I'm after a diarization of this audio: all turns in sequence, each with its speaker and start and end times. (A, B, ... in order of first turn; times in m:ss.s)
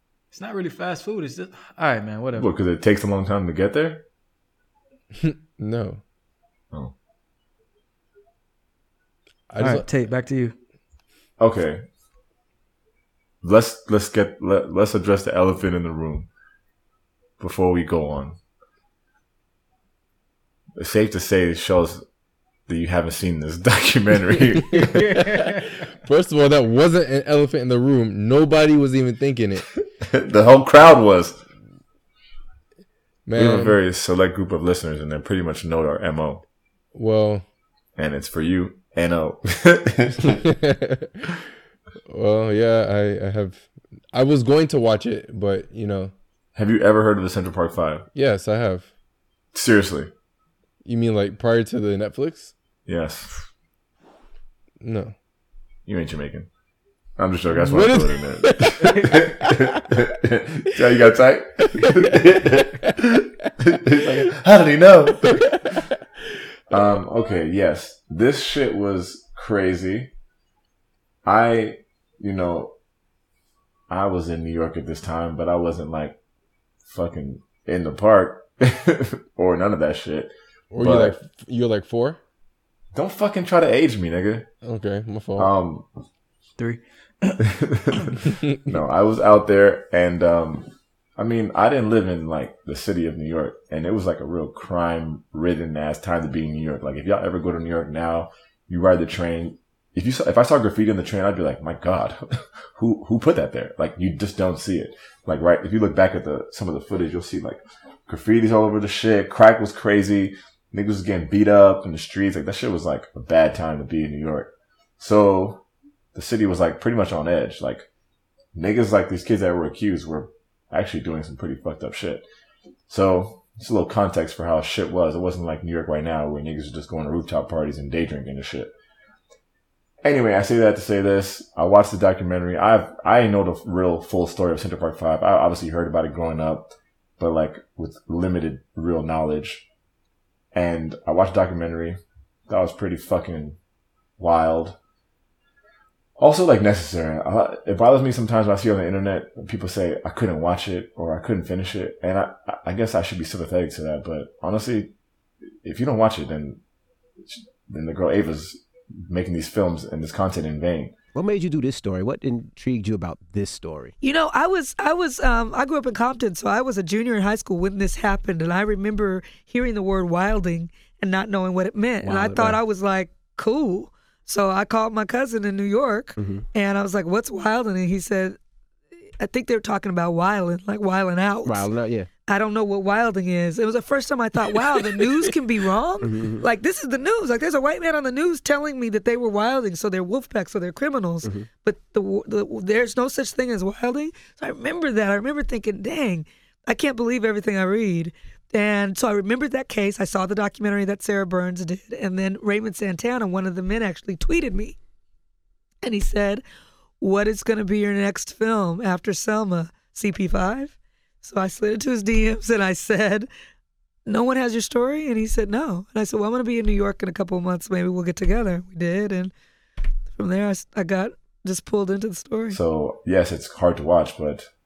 0:00.3-0:02.5 A
0:02.4-0:04.0 B
0:05.2-0:06.0 C
0:09.5-0:09.9 C
0:09.6-0:10.5 A
0:11.4-0:11.8 B
0:13.4-0:16.3 B
0:17.4-0:18.4 B
0:20.8-0:22.0 B
0:22.7-0:25.0 B
0:24.8-0:29.7 C
0:24.9-0:25.7 A
0:30.0-0:31.4 B
0:33.2-0:33.8 C
0:33.3-0:36.4 B
0:36.9-0:37.4 C
0:38.0-0:40.4 B
0:40.4-0:41.2 C
0:42.1-0:46.1 C
0:46.6-0:48.0 B
0:48.1-0:48.9 C
0:49.5-0:50.1 B
0:50.8-0:52.5 C
0:52.9-0:53.4 B
0:54.8-0:55.1 C
0:55.9-0:56.5 B
0:57.2-1:05.8 B
0:57.5-0:59.8 C
1:01.9-1:02.2 C
1:05.2-1:05.6 C
1:06.7-1:10.1 B
1:11.2-1:12.7 B
1:13.9-1:16.2 B
1:16.8-1:21.2 B
1:20.7-1:22.2 C
1:22.9-1:24.5 B
1:24.6-1:25.5 C
1:25.4-1:25.9 B
1:26.6-1:27.4 A
1:27.4-1:55.6 B
1:56.1-1:57.8 B
1:58.5-2:02.2 B
2:02.9-2:08.7 B
2:10.0-2:19.7 B
2:20.5-2:23.6 B
2:24.2-2:24.8 B
2:26.2-2:34.9 B
2:35.6-2:36.6 B
2:37.3-2:40.9 B
2:41.1-2:43.9 D
2:44.0-2:58.4 E
2:52.0-2:52.6 D
2:56.2-2:56.4 D
2:59.2-3:01.7 E
3:01.4-3:02.1 D
3:02.3-3:24.8 E
3:06.0-3:06.4 D
3:11.2-3:11.5 D
3:25.8-3:26.4 E
3:27.0-3:33.3 E
3:34.0-3:39.3 E
3:40.2-3:42.6 E
3:42.5-3:44.5 B